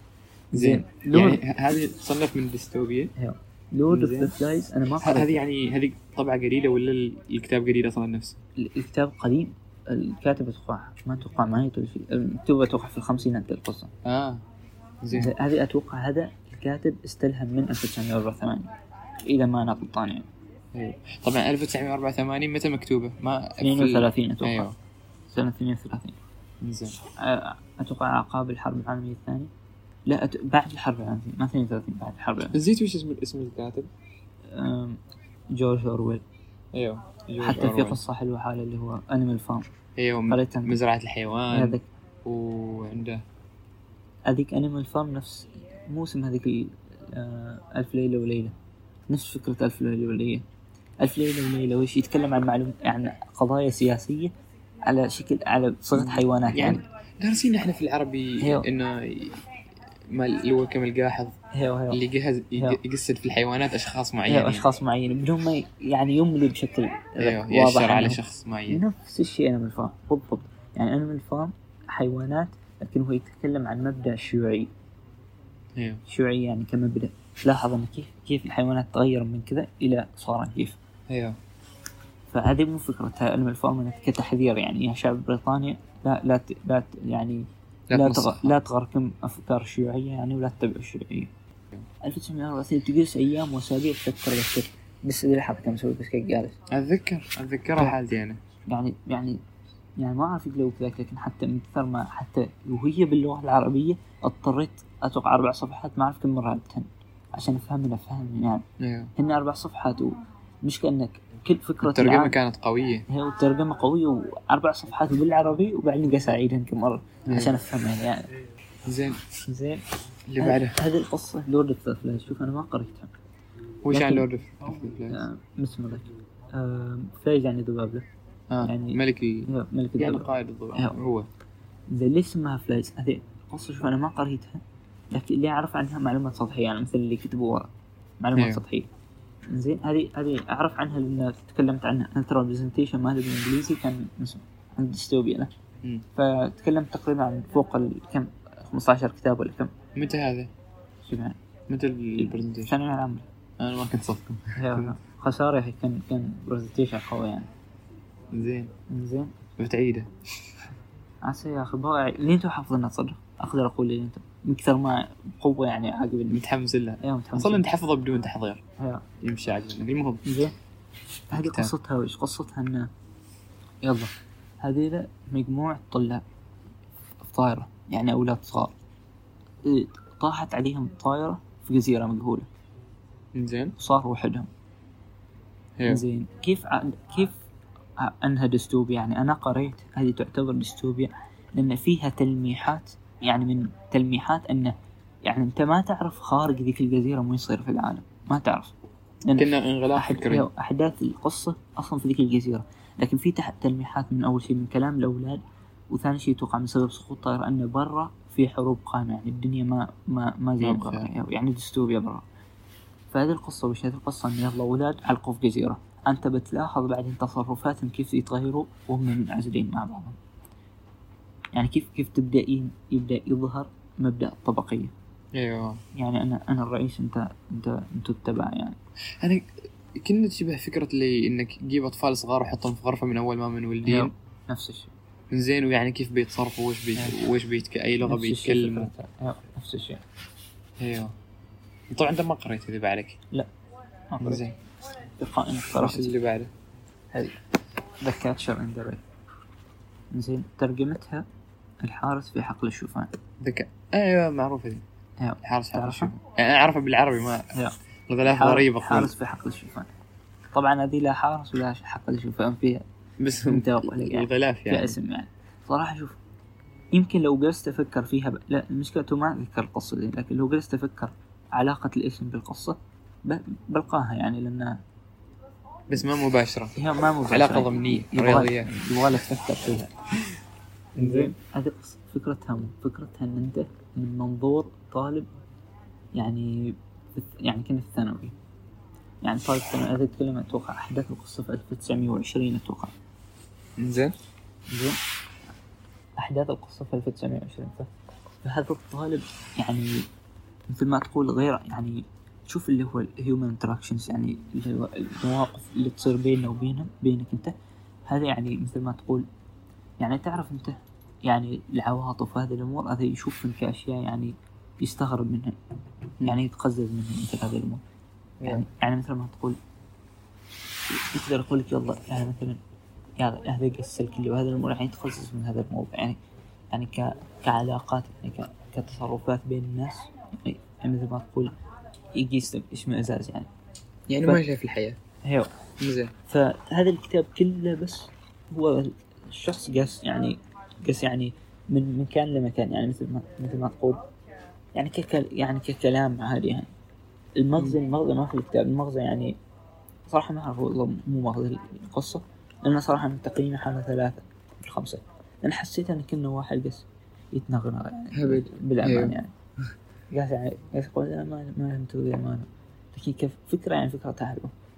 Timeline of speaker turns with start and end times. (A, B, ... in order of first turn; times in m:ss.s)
0:00.5-0:01.4 A
0:00.5-0:03.1 B
0:03.2-0:05.4 A
0:03.9-0:04.3 B
0:05.0-0:08.4 B
0:08.6-0:13.9 A
0:14.0-0:14.4 B
0:15.0-0:15.3 B
0:15.1-0:18.7 A
0:19.2-0:20.3 A
0:20.7-0:24.8 B
0:23.6-0:24.7 A
0:25.3-0:26.2 A
0:26.6-0:27.0 B
0:27.2-0:29.5 A
0:30.1-0:32.6 A
0:32.5-0:33.9 B
0:34.5-0:35.0 A
0:35.5-0:36.2 A
0:36.7-0:38.0 B
0:37.4-0:39.7 A
0:40.0-0:43.2 B
0:40.3-0:40.8 A
0:41.5-0:41.8 A
0:44.3-0:48.5 A
0:49.1-0:50.4 A
0:51.0-0:54.3 A
0:54.8-0:56.8 A
0:55.9-0:59.4 B
0:58.4-0:58.7 A
1:00.1-1:01.3 B
1:01.5-1:02.0 A
1:01.9-1:04.7 B
1:04.3-1:14.7 A
1:07.2-1:08.8 B
1:15.8-1:16.0 B
1:16.1-1:20.8 A
1:21.1-1:21.4 B
1:22.3-1:31.3 A
1:27.9-1:28.5 B
1:32.0-1:36.6 A
1:36.7-1:38.4 B
1:38.7-1:39.4 A
1:40.0-1:48.6 A
1:48.8-1:49.1 B
1:49.2-1:52.4 A
1:51.8-1:53.0 B
1:53.1-1:58.3 A
1:57.2-1:57.6 B
1:58.8-1:59.2 B
1:59.5-1:59.8 A
2:00.3-2:00.8 B
2:00.4-2:03.1 A
2:03.8-2:05.2 B
2:03.9-2:04.2 A
2:05.1-2:08.0 A
2:08.5-2:11.3 B
2:08.6-2:11.0 A
2:11.9-2:17.7 A
2:18.2-2:18.9 A
2:18.3-2:18.6 B
2:19.5-2:25.5 A
2:26.1-2:29.7 A
2:30.0-2:30.5 B
2:31.0-2:31.4 A
2:31.7-2:32.8 B
2:32.2-2:33.2 A
2:33.6-2:35.0 B
2:34.6-2:37.5 A
2:38.3-2:38.7 B
2:38.9-2:39.3 A
2:39.6-2:40.1 B
2:41.2-2:46.4 A
2:46.3-2:48.6 B
2:47.0-2:47.7 A
2:48.8-2:49.0 A
2:49.2-2:50.2 B
2:50.2-2:50.5 A
2:51.3-2:51.7 B
2:51.3-2:52.9 A
2:53.8-2:56.2 A
2:57.2-2:58.8 A
2:59.6-3:02.5 A
3:03.3-3:03.8 B
3:03.8-3:04.5 A
3:05.8-3:06.0 B
3:05.8-3:07.4 A
3:08.0-3:18.7 A
3:19.2-3:32.2 A
3:19.4-3:20.5 B
3:30.6-3:31.1 B
3:33.1-3:40.2 A
3:41.5-3:44.9 A
3:45.3-3:45.8 B
3:46.0-3:48.8 A
3:49.2-3:54.1 B
3:53.8-3:54.9 A
3:55.3-3:58.9 B
3:58.0-4:00.0 A
4:00.8-4:01.1 B
4:01.9-4:03.2 B
4:04.1-4:04.5 A
4:04.2-4:04.5 B
4:05.2-4:06.2 A
4:05.7-4:06.5 B
4:07.1-4:07.4 A
4:08.0-4:09.0 A
4:10.1-4:11.2 A
4:11.8-4:13.2 A
4:13.4-4:14.8 B
4:15.2-4:16.1 A
4:15.4-4:17.5 B
4:18.1-4:19.1 B
4:18.2-4:19.9 A
4:20.5-4:22.8 A
4:23.2-4:25.0 B
4:23.5-4:26.2 A
4:26.9-4:34.8 A
4:35.9-4:36.8 B
4:36.8-4:40.0 A
4:37.3-4:38.7 B
4:41.0-4:45.3 A
4:41.0-4:41.3 B
4:46.1-4:48.3 A
4:49.2-4:52.9 A
4:53.8-4:54.1 B
4:54.7-4:55.0 A
4:56.2-4:57.9 A
4:58.4-5:00.1 A
5:00.7-5:07.5 A
5:08.0-5:09.2 A
5:10.0-5:15.6 A
5:16.2-5:17.8 A
5:18.4-5:19.6 A
5:20.9-5:22.6 A
5:23.2-5:26.2 A
5:26.7-5:31.5 A
5:32.1-5:33.5 A
5:34.1-5:35.0 B
5:35.2-5:35.5 A
5:35.8-5:36.1 B
5:36.3-5:44.0 A
5:44.8-5:46.7 A
5:47.4-5:49.4 A
5:50.1-5:59.3 A
5:58.1-5:59.2 B
6:00.1-6:04.5 A